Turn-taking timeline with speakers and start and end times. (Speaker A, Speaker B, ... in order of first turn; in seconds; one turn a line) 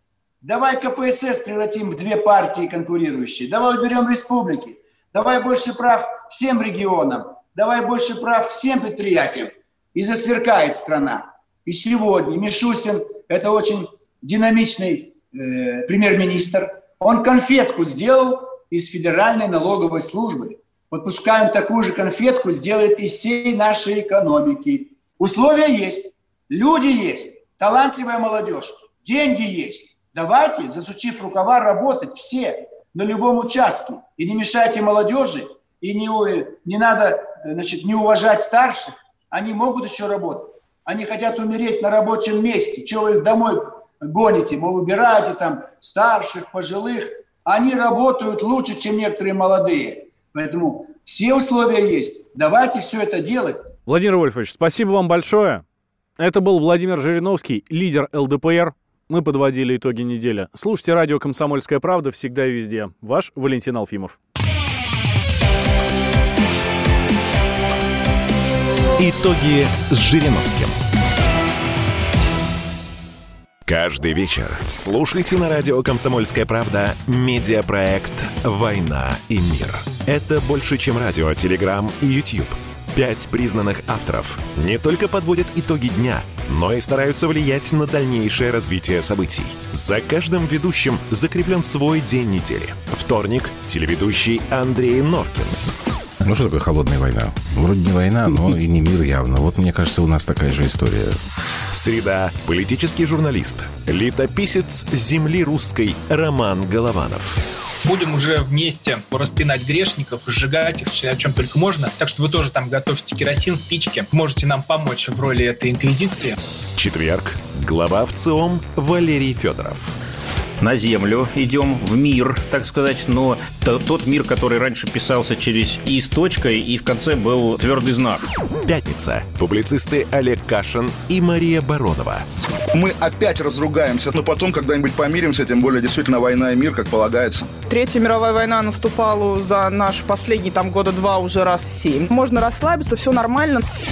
Speaker A: 0.4-53.7
Speaker B: 53.9-55.6
Speaker B: 56.2-64.2
Speaker C: 69.0-70.8
Speaker C: 73.7-95.6
Speaker D: 96.2-101.2
Speaker C: 101.7-107.4
Speaker E: 107.8-116.4
Speaker C: 116.8-120.0
Speaker F: 120.6-128.3
Speaker C: 128.7-132.3
Speaker G: 132.7-137.5
Speaker H: 137.7-143.6